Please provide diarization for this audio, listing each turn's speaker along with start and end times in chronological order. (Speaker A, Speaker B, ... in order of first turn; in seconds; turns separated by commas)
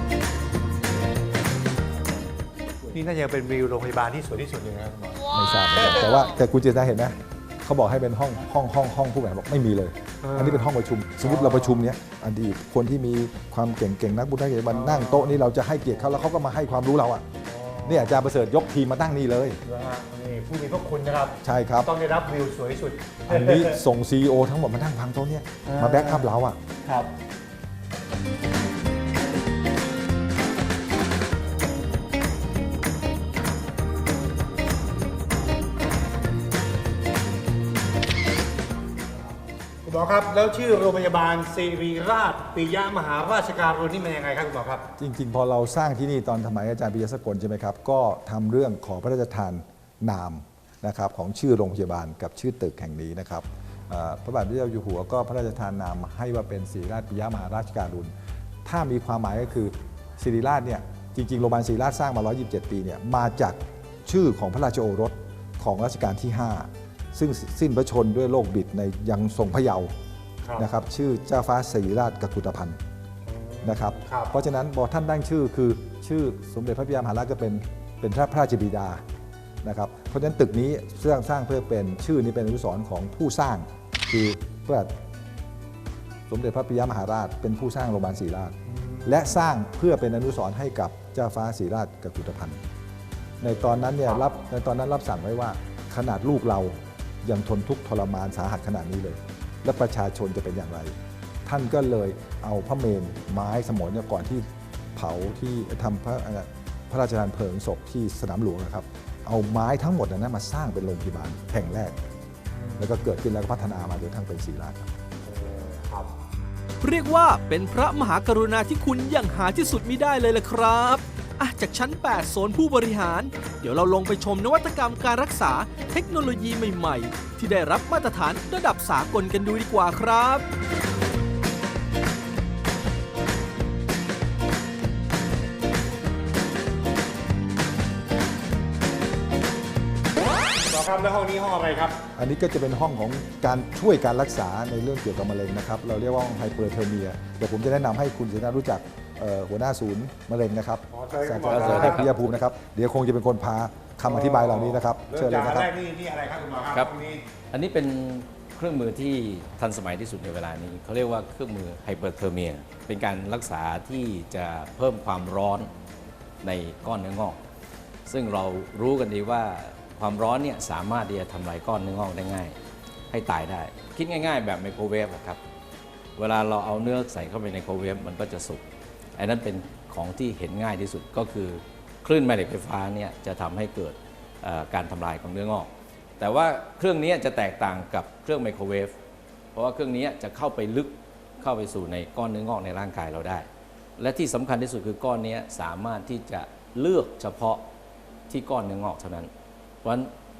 Speaker A: 2.9-5.3, Speaker B: 5.2-17.2, Speaker A: 10.2-11.9, Speaker A: 14.7-15.4, Speaker A: 17.4-18.2, Speaker B: 17.9-19.6, Speaker A: 19.6-23.8, Speaker B: 21.4-21.9, Speaker B: 23.3-26.6, Speaker A: 25.7-26.3, Speaker A: 26.8-27.1, Speaker A: 39.9-44.9, Speaker B: 45.0-58.1, Speaker B: 58.6-69.9, Speaker A: 70.4-70.7, Speaker B: 70.6-72.8, Speaker A: 73.3-74.3, Speaker B: 73.6-79.0, Speaker B: 79.6-84.9, Speaker B: 86.3-92.6, Speaker A: 88.7-89.3, Speaker B: 93.4-101.0, Speaker A: 93.5-94.3, Speaker B: 101.5-112.0, Speaker A: 112.5-113.0, Speaker B: 112.8-114.9, Speaker A: 115.2-116.1, Speaker C: 116.8-130.4, Speaker A: 140.7-142.0, Speaker B: 142.2-155.7, Speaker A: 150.9-152.1, Speaker D: 151.5-152.1, Speaker A: 154.0-157.3, Speaker D: 157.5-165.7, Speaker D: 166.4-167.4, Speaker D: 168.1-172.6, Speaker D: 173.1-175.4, Speaker D: 176.2-178.6, Speaker D: 179.2-188.9, Speaker D: 189.6-193.5, Speaker D: 194.0-197.6, Speaker D: 198.3-199.3, Speaker D: 199.8-200.1